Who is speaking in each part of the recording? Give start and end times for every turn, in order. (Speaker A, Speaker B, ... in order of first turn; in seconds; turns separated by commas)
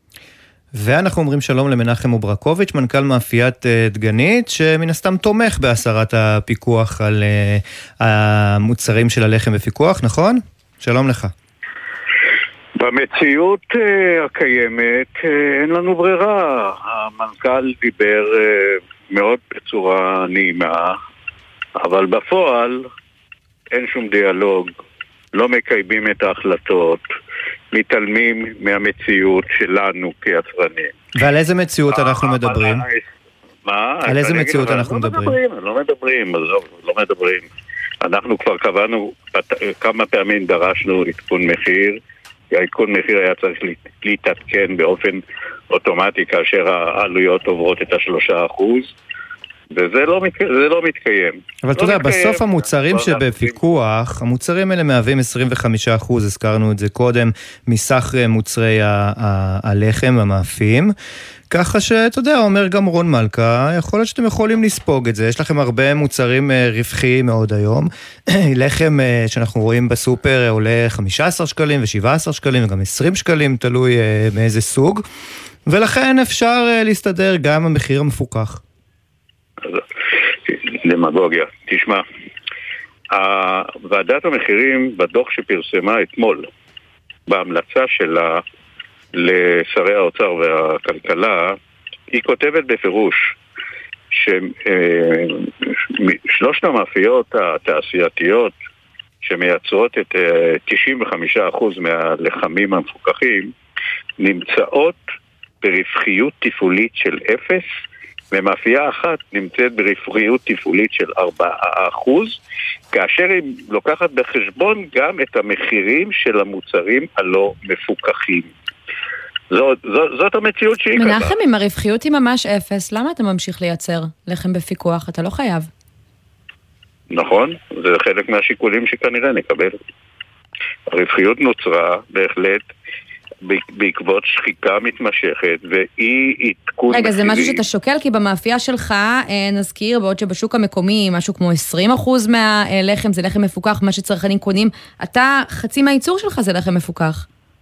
Speaker A: 0.8-11.3, Speaker B: 12.8-20.9, Speaker B: 21.8-22.8, Speaker B: 23.7-24.7, Speaker B: 25.3-27.0, Speaker B: 27.7-30.9, Speaker A: 31.2-32.8, Speaker B: 31.9-33.0, Speaker B: 33.7-37.5, Speaker A: 34.1-35.4, Speaker B: 38.0-42.0, Speaker B: 42.5-48.9, Speaker B: 49.7-53.6, Speaker A: 51.6-60.9, Speaker A: 61.5-75.0, Speaker A: 75.7-78.6, Speaker B: 80.5-82.0, Speaker B: 83.1-86.5, Speaker B: 87.3-88.4, Speaker B: 89.1-91.6, Speaker B: 92.1-93.3, Speaker B: 94.1-98.5, Speaker B: 99.2-103.5, Speaker B: 104.2-105.0, Speaker B: 105.6-107.7, Speaker B: 108.3-112.4, Speaker B: 112.9-118.5, Speaker B: 119.5-121.3, Speaker C: 121.0-125.7, Speaker B: 127.1-129.8, Speaker B: 130.9-132.7, Speaker B: 133.4-137.6, Speaker C: 136.9-147.3